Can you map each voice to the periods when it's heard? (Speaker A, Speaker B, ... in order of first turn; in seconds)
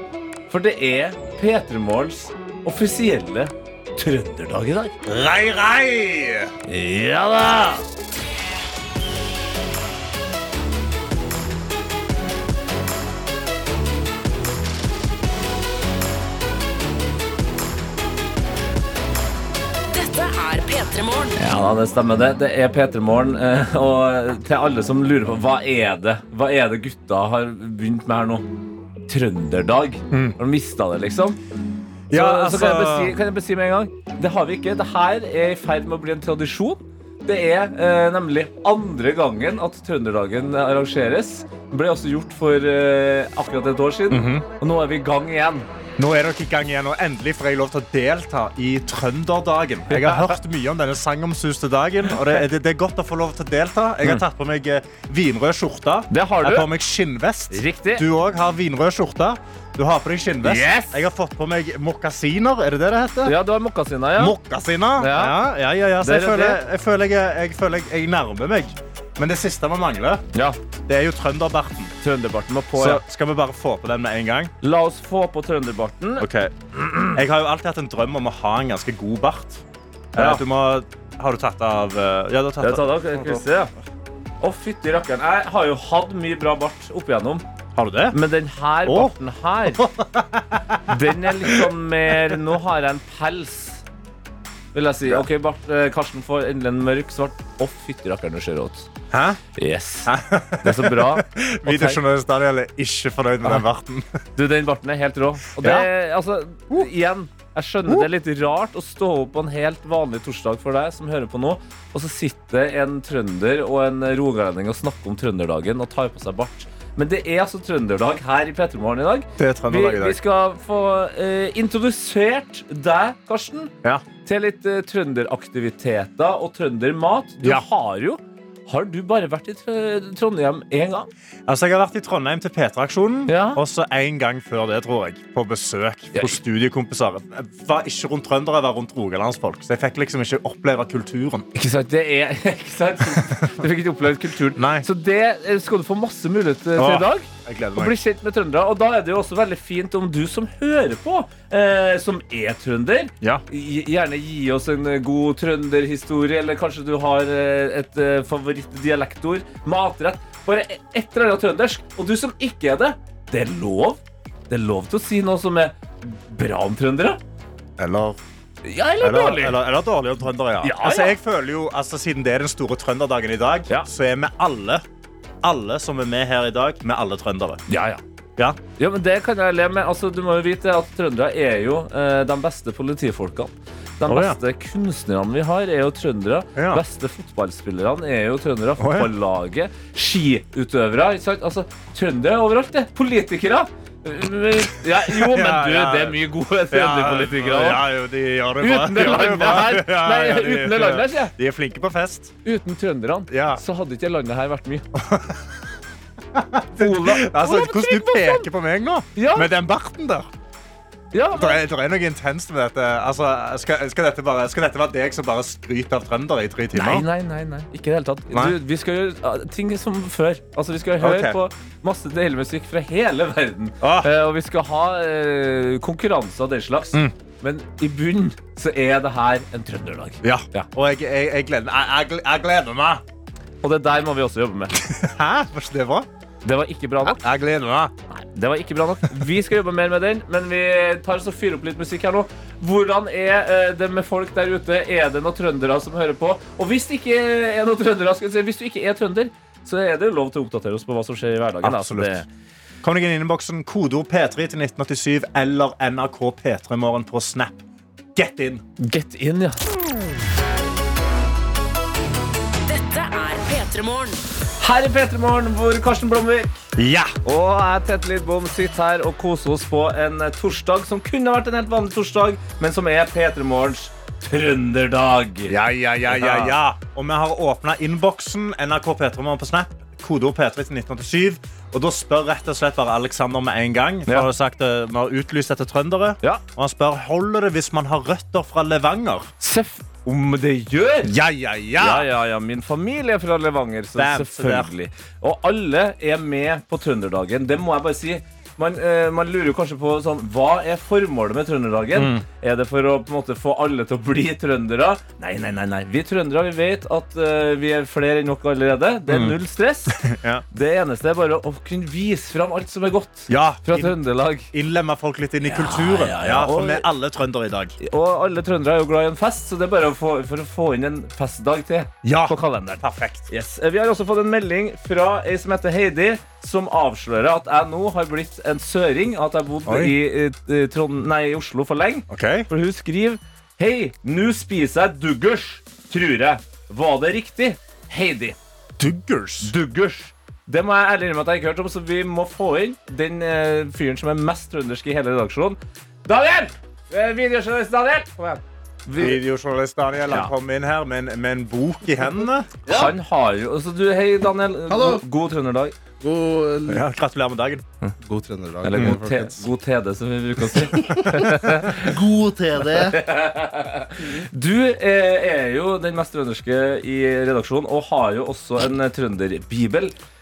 Speaker A: 0.5-5.0, 6.7-7.8, 21.4-28.4, 29.1-31.4, 32.1-45.7, 49.9-50.4, 52.1-52.4, 56.1-56.7, 57.5-58.0, 60.4-61.0, 63.2-64.4, 65.0-65.3, 66.0-66.6, 72.0-73.0, 74.6-77.2, 80.2-80.4, 82.6-83.7, 84.4-87.4, 88.1-89.8, 90.9-93.8, 94.7-98.9, 99.5-102.0, 104.3-123.7, 124.2-131.1, 133.3-133.6, 136.1-136.4, 141.5-167.2, 168.6-169.6, 170.6-171.1, 177.7-178.0, 178.8-197.8, 198.6-201.3, 202.4-204.9, 206.8-208.5, 209.2-209.5, 211.1-211.6, 216.7-230.7, 233.6-234.8, 236.4-237.2, 238.1-252.2, 258.8-259.6, 264.6-266.6, 267.2-275.5, 276.1-276.5, 289.4-291.1, 291.8-314.5, 315.4-316.9, 317.8-338.4, 339.4-349.2, 352.6-355.8, 358.6-361.9, 362.8-369.9
Speaker B: 5.0-6.5, 30.1-30.4, 32.1-33.1, 44.1-44.4, 46.0-63.3, 64.2-70.2, 70.9-71.9, 72.8-74.5, 76.2-76.5, 77.1-79.6, 80.1-83.4, 87.8-88.2, 88.8-89.1, 89.7-91.7, 99.1-99.4, 100.0-104.0, 105.6-105.9, 119.4-120.2, 131.5-141.4, 143.1-143.6, 144.6-144.8, 146.8-147.9, 167.8-168.2, 169.0-174.8, 175.4-177.6, 184.1-184.4, 186.6-186.8, 188.8-189.1, 195.0-196.2, 196.7-202.3, 203.3-203.6, 204.9-205.4, 206.3-210.3, 211.3-217.1, 218.3-218.6, 221.0-221.4, 223.8-224.1, 230.2-233.0, 234.8-236.1, 237.0-237.9, 251.6-252.2, 252.8-257.6, 258.1-258.6, 266.8-267.1, 275.5-289.3, 291.0-292.1, 293.9-294.7, 301.9-302.2, 309.1-309.4, 309.9-310.4, 313.3-313.9, 314.5-317.8, 322.0-323.3, 329.6-329.9, 332.1-332.5, 338.8-339.5, 349.0-352.9, 356.7-357.6
Speaker C: 19.9-21.4, 262.6-264.2
Speaker D: 354.7-355.0, 356.0-356.8, 358.0-359.4, 360.7-363.0